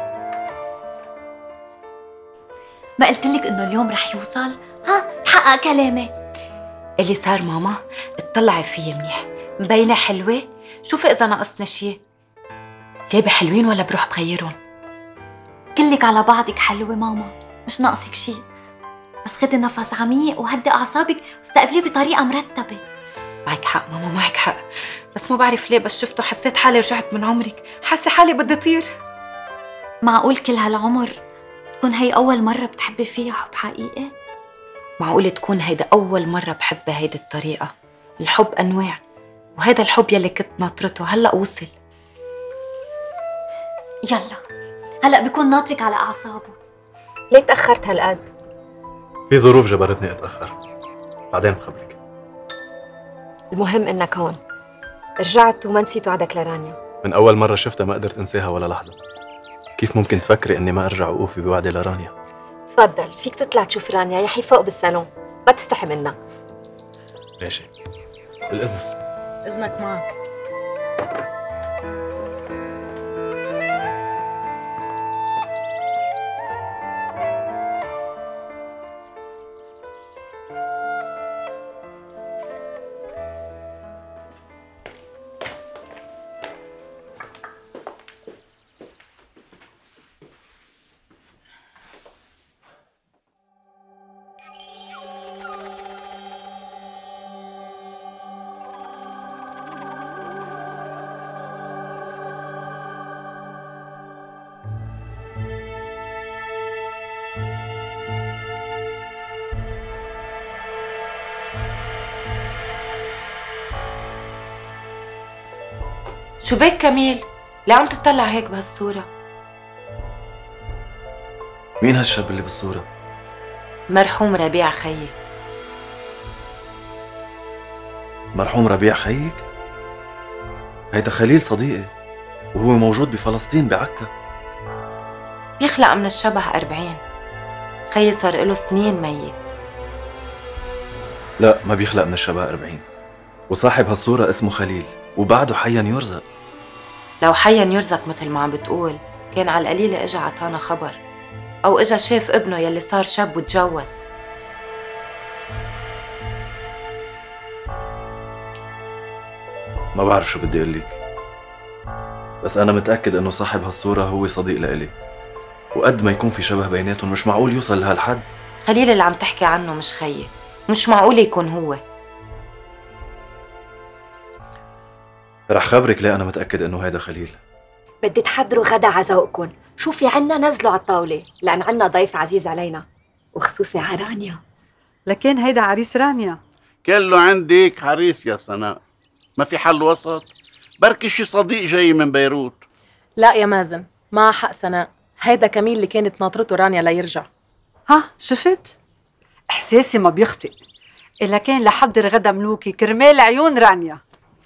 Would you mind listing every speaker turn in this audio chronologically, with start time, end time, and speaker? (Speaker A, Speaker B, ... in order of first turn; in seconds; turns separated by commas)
Speaker A: 3.0-6.1, Speaker B: 7.0-12.0, Speaker B: 13.1-14.6, Speaker A: 15.8-18.4, Speaker A: 19.2-22.8, Speaker B: 23.5-28.9, Speaker A: 30.0-31.2, Speaker A: 31.8-34.1, Speaker B: 35.0-39.0, Speaker B: 39.6-41.7, Speaker A: 44.1-44.4, Speaker A: 45.0-46.5, Speaker C: 47.3-48.3, Speaker D: 49.3-50.5, Speaker D: 51.3-52.0, Speaker C: 53.5-54.4, Speaker C: 55.2-56.8, Speaker D: 57.0-59.0, Speaker D: 59.8-62.1, Speaker C: 62.7-66.2, Speaker D: 67.4-67.7, Speaker D: 68.5-68.8, Speaker E: 69.4-70.1, Speaker B: 116.4-119.1, Speaker D: 121.8-122.8, Speaker B: 123.9-125.1, Speaker D: 128.3-129.4, Speaker D: 130.9-131.9, Speaker D: 132.5-134.1, Speaker B: 135.6-137.0, Speaker B: 137.9-139.6, Speaker D: 141.4-142.8, Speaker D: 143.5-146.2, Speaker B: 147.2-151.0, Speaker B: 151.6-154.0, Speaker D: 159.9-161.0, Speaker D: 162.4-164.9, Speaker D: 165.7-168.2, Speaker B: 168.6-171.8, Speaker D: 175.5-177.4, Speaker C: 178.0-184.4, Speaker F: 185.1-186.4, Speaker G: 186.8-188.8, Speaker G: 189.4-192.6, Speaker E: 193.2-197.3, Speaker F: 197.9-198.7, Speaker F: 199.5-200.6, Speaker F: 201.2-204.0